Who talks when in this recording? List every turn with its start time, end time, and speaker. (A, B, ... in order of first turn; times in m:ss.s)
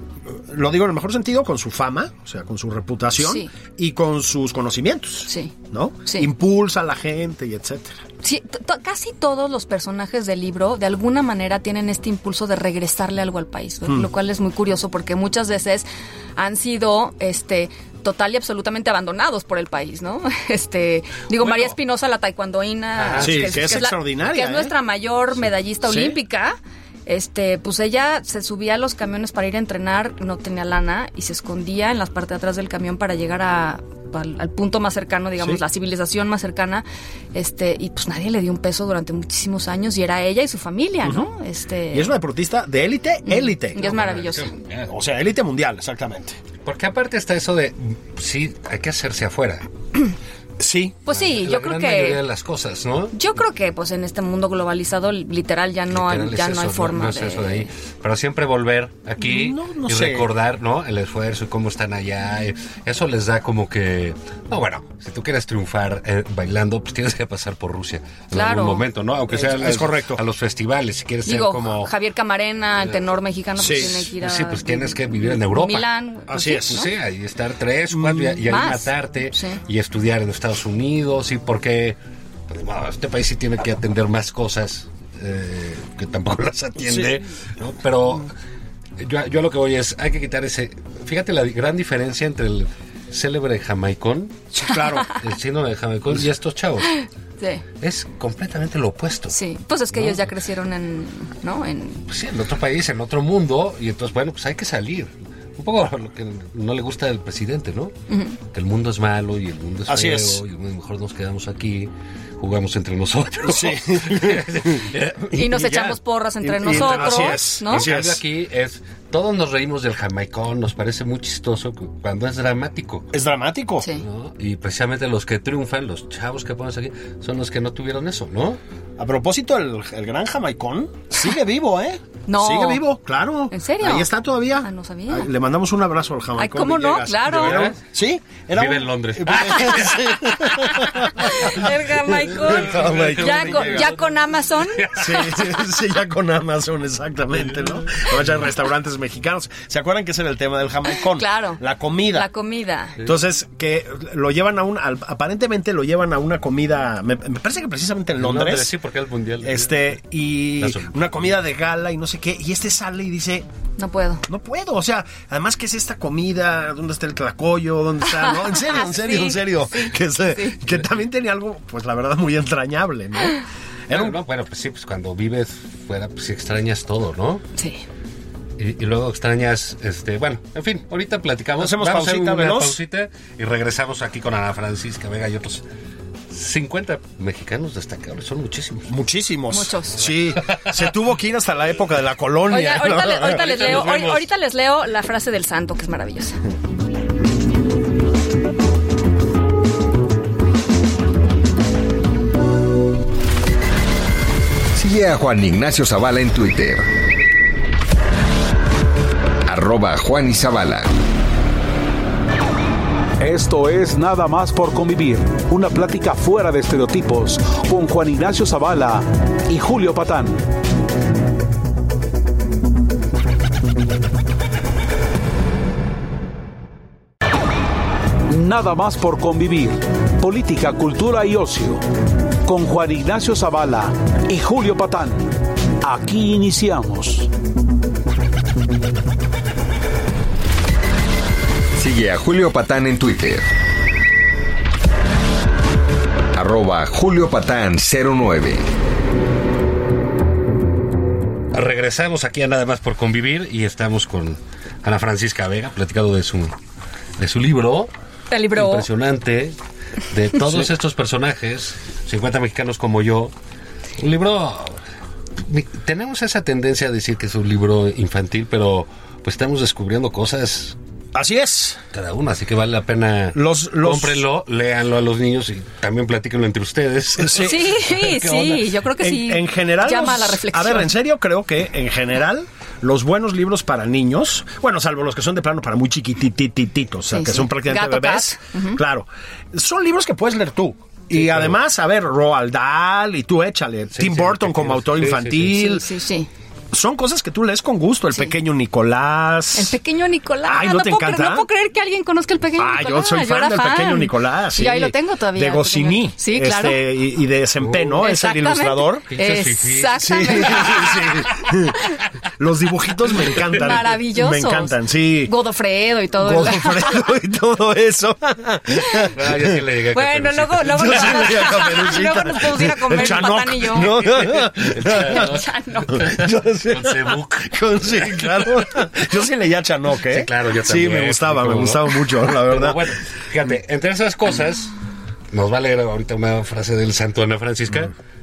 0:00.3-0:08.0 A
0:03.2-0:03.5 B
0:05.2-0:05.5 B
0:06.0-0:06.3 B
0:08.2-0:42.1 B
0:21.4-0:21.7 C
0:23.0-0:23.9 C
0:23.2-0:24.7 A
0:25.8-0:26.2 A
0:41.0-0:41.3 A
0:41.9-0:43.8 A
0:43.3-0:44.5 B
0:43.7-0:44.9 C
0:44.9-0:46.4 A
0:46.6-0:49.7 C
0:50.6-0:51.0 A
0:51.0-0:52.2 B
0:51.1-0:53.2 C
0:53.1-0:57.7 B
0:55.9-1:11.9 C
0:59.2-1:00.3 A
1:08.3-1:08.8 B
1:09.3-1:10.2 A
1:11.2-1:16.9 B
1:13.6-1:14.0 A
1:13.6-1:15.9 C
1:16.3-1:16.8 A
1:16.6-1:22.0 C
1:17.9-1:18.4 A
1:18.4-1:19.6 B
1:22.5-1:28.3 C
1:26.8-1:27.1 A
1:29.0-1:34.4 C
1:34.6-1:35.1 A
1:34.6-1:35.2 B
1:35.1-1:36.9 C
1:36.8-1:37.6 B
1:37.8-1:39.4 C
1:39.3-1:42.0 B
1:39.9-1:40.3 C
1:42.1-1:47.9 C
1:48.1-1:48.4 B
1:48.5-1:55.7 C
1:49.9-1:50.4 A
1:53.4-1:54.8 A
1:55.3-1:57.9 B
1:55.4-1:58.2 A
1:56.6-2:03.1 C
2:03.1-2:03.9 A
2:04.0-2:08.6 C
2:09.0-2:23.9 A
2:12.3-2:12.8 B
2:13.5-2:15.3 B
2:16.4-2:17.7 B
2:17.3-2:17.8 C
2:18.5-2:21.6 C
2:21.0-2:25.1 B
2:22.3-2:25.4 C
2:25.0-2:32.3 A
2:27.8-2:28.4 C
2:30.9-2:31.6 B
2:32.1-2:33.0 B
2:33.0-2:38.7 A
2:38.2-2:40.0 C
2:39.4-2:43.4 A
2:40.6-2:40.9 C
2:43.8-2:44.2 B
2:44.3-2:53.4 A
2:48.1-2:50.6 B
2:53.9-2:54.2 A
2:53.9-2:57.4 C
2:58.6-3:05.6 C
3:01.6-3:02.8 A
3:06.3-3:08.9 C
3:08.9-3:13.6 A
3:09.5-3:10.1 B
3:10.1-3:10.8 C
3:12.5-3:16.4 B
3:13.0-3:14.2 C
3:24.7-3:26.9 D
3:29.4-3:30.9 D
3:33.2-3:40.4 E
3:48.3-3:51.8 E
3:52.4-3:57.3 E
4:01.8-4:03.5 D
4:06.3-4:08.7 D
4:11.5-4:16.5 C
4:17.2-4:17.9 C
4:18.3-4:18.9 B
4:18.5-4:19.6 C
4:20.1-4:23.3 C
4:24.0-4:24.8 C
4:25.4-4:30.8 C
4:31.1-4:31.8 A
4:31.9-4:38.6 C
4:33.3-4:34.2 A
4:37.2-4:38.4 A
4:37.4-4:40.9 B
4:39.0-4:55.8 A
4:47.1-4:48.8 B
4:51.1-4:51.6 C
4:53.9-4:55.7 C
4:55.5-4:56.3 B
4:56.7-4:59.8 A
4:59.5-5:06.8 B
5:00.4-5:01.5 A
5:02.6-5:09.0 A
5:07.6-5:08.0 C
5:08.0-5:10.9 B
5:09.1-5:11.5 C
5:10.0-5:11.8 A
5:12.4-5:15.3 A
5:13.4-5:17.0 B
5:16.2-5:19.6 A
5:19.0-5:21.6 C
5:19.9-5:24.0 B
5:20.7-5:25.3 A
5:23.9-5:29.0 C
5:24.9-5:26.0 B
5:25.9-5:32.9 A
5:30.1-5:34.7 C
5:35.3-5:37.9 C